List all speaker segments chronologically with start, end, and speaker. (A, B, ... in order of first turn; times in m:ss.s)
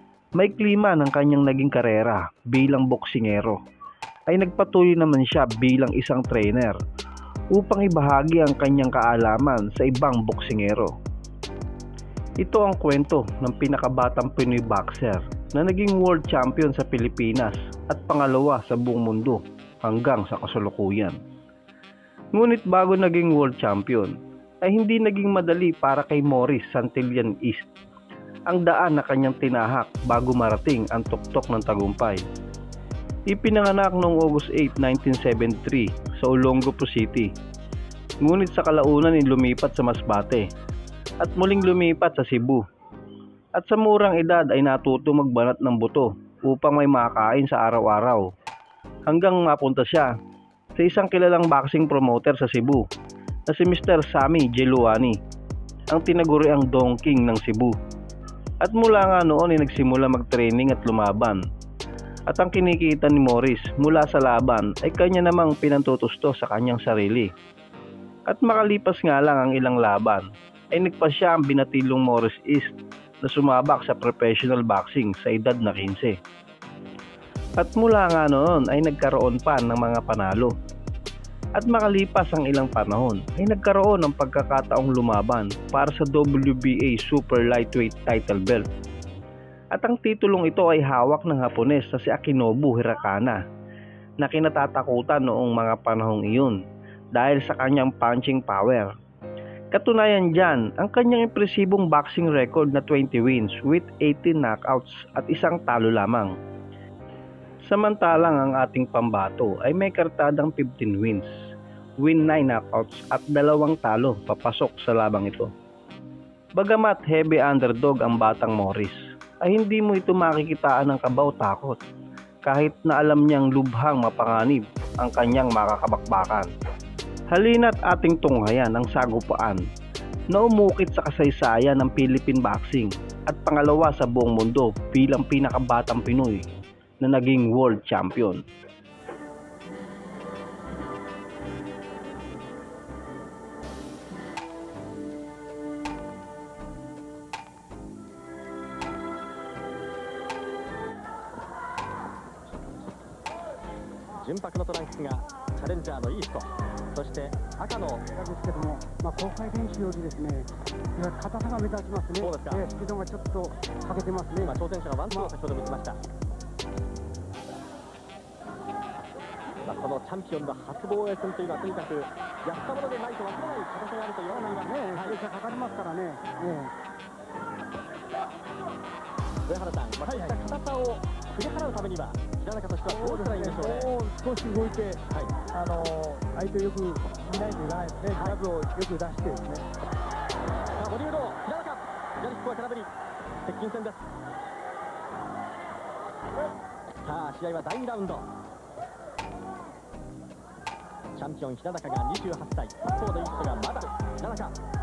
0:00.4-0:03.6 A
0:04.3-0:06.8 A
0:07.6-0:10.9 A
0:12.4-0:21.2 A
0:22.4-0:27.6 A
0:28.5-0:32.2 A
0:33.3-0:37.3 A
0:38.2-0:40.5 A
0:41.2-0:42.6 A
0:43.6-0:48.2 A
0:49.1-0:50.1 A
0:50.8-0:52.8 A
0:53.5-0:55.2 A
0:55.9-0:57.7 A
0:58.6-1:01.4 A
1:02.3-1:07.3 A
1:08.3-1:16.2 A
1:17.6-1:20.5 A
1:21.6-1:28.6 A
1:29.7-1:33.4 A
1:34.2-1:36.6 A
1:37.2-1:38.9 A
1:39.7-1:46.3 A
1:47.6-1:51.3 A
1:52.0-1:55.5 A
1:56.6-2:01.8 A
2:02.4-2:06.5 A
2:07.3-2:09.6 A
2:10.3-2:16.5 A
2:17.0-2:18.4 A
2:34.2-2:38.0 B
2:38.1-2:44.6 C
2:42.2-2:42.6 B
2:44.4-2:46.0 B
2:45.1-2:45.3 C
2:49.6-2:55.2 B
2:54.3-2:56.7 C
2:59.5-3:03.9 B
3:00.1-3:00.4 C
3:02.9-3:05.0 C
3:05.5-3:09.6 C
3:10.8-3:12.9 B
3:13.4-3:14.0 B
3:17.0-3:18.3 B
3:21.2-3:24.6 B